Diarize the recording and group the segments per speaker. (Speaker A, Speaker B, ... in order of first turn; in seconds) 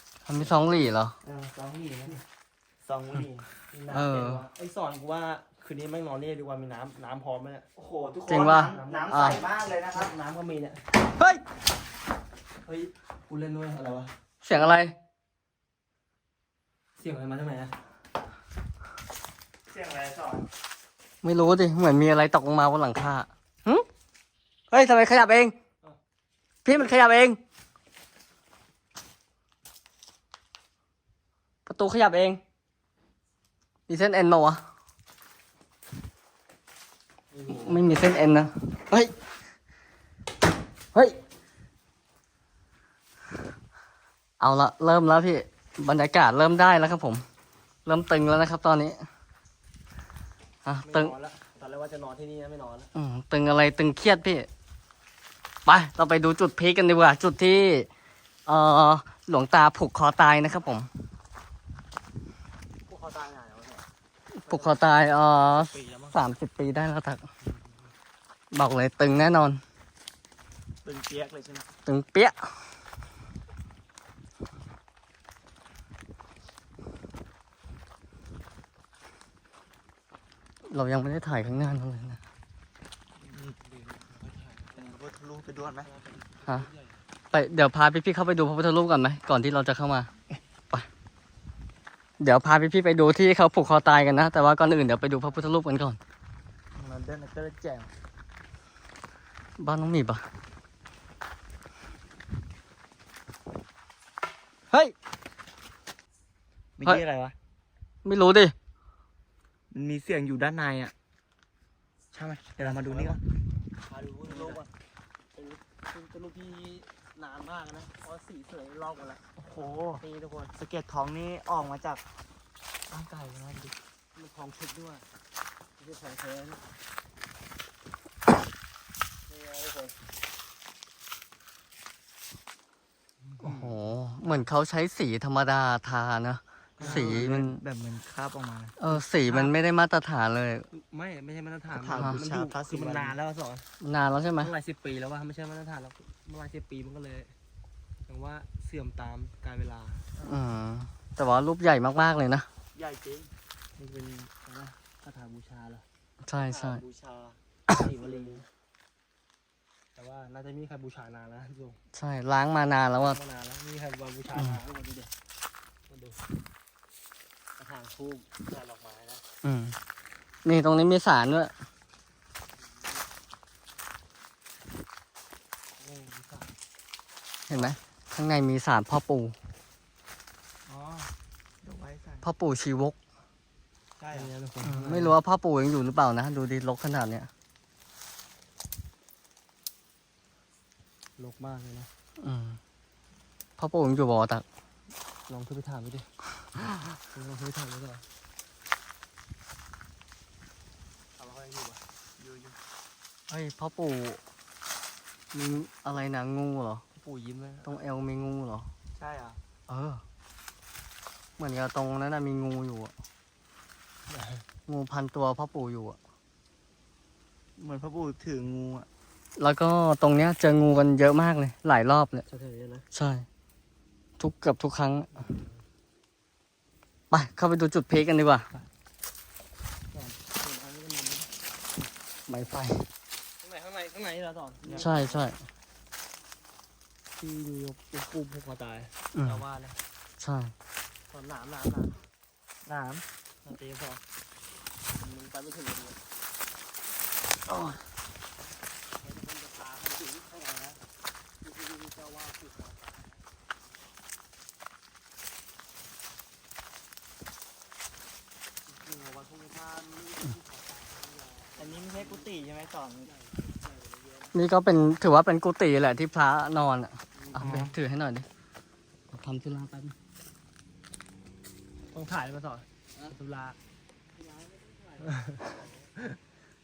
Speaker A: 0.2-1.2, 3.9-4.5, 8.3-9.4, 14.4-14.9, 21.2-23.9, 24.7-25.6, 26.6-27.4, 31.7-32.4, 33.9-34.6, 37.5-39.1, 44.4-47.2, 47.9-49.0, 50.6-51.1, 52.9-54.5, 55.7-57.9, 58.5-60.9, 64.3-67.2, 68.5-69.6, 71.9-72.3, 80.7-82.2, 87.3-90.1, 92.2-96.0, 99.6-100.2, 108.0-108.5, 133.4-137.6, 138.8-140.7, 141.9-142.2, 143.8-144.5, 150.2-152.5, 156.2-156.8, 161.9-163.2, 169.4-169.8, 170.4-171.5, 177.5-179.3, 182.2-183.0, 184.6-187.3, 192.2-192.6, 193.6-194.4, 203.3-204.2, 205.3-206.8, 207.7-208.7, 209.7-210.0, 211.4-212.9, 214.7-216.0, 219.4-222.2, 222.9-223.3, 224.2-225.3, 227.1-228.5, 232.3-232.9, 234.8-235.4, 239.2-239.4, 240.2-240.5, 247.5-247.8, 264.3-268.3, 269.1-269.9
Speaker B: 1.2-2.2, 2.8-3.5, 7.8-10.1, 19.7-20.5, 65.6-66.2, 70.8-71.7, 83.2-83.6, 84.8-85.9, 96.8-97.9, 106.8-107.3, 109.7-110.9, 112.2-113.2, 114.3-114.6, 119.4-122.0, 122.9-123.8, 136.8-138.8, 141.7-143.2, 152.8-154.3, 156.5-157.4, 157.9-158.4, 181.6-182.3, 184.0-184.3, 202.2-202.6, 209.0-209.4, 217.6-218.9, 234.6-235.2, 242.7-243.1, 261.6-263.1, 267.4-267.7
Speaker C: 3.7-7.7, 8.7-9.2, 9.9-10.8, 12.7-14.1, 17.0-17.7, 37.3-38.0, 50.9-52.9, 62.9-63.9, 67.4-67.8, 83.6-85.0, 85.8-87.0, 112.2-113.2, 113.9-114.7, 115.3-119.2, 120.0-120.5, 124.2-125.1, 125.8-126.7, 129.3-130.0, 133.2-133.7, 136.8-137.2, 138.9-139.6, 140.7-143.7, 144.4-147.3, 148.1-150.1, 154.3-155.8, 157.7-158.5, 160.0-161.8, 163.0-165.1, 165.9-166.2, 167.6-169.2, 175.8-176.5, 180.7-181.1, 184.1-185.2, 191.2-191.9, 195.3-196.1, 197.1-198.0, 201.2-201.8, 206.9-207.8, 214.1-214.4, 222.3-222.8, 229.9-231.3, 233.4-235.1, 237.2-239.8, 241.1-242.0, 243.4-244.0, 245.0-246.0, 249.0-250.8, 251.4-253.2, 258.7-262.3, 263.1-264.4, 267.2-267.6, 271.9-273.6, 275.0-276.2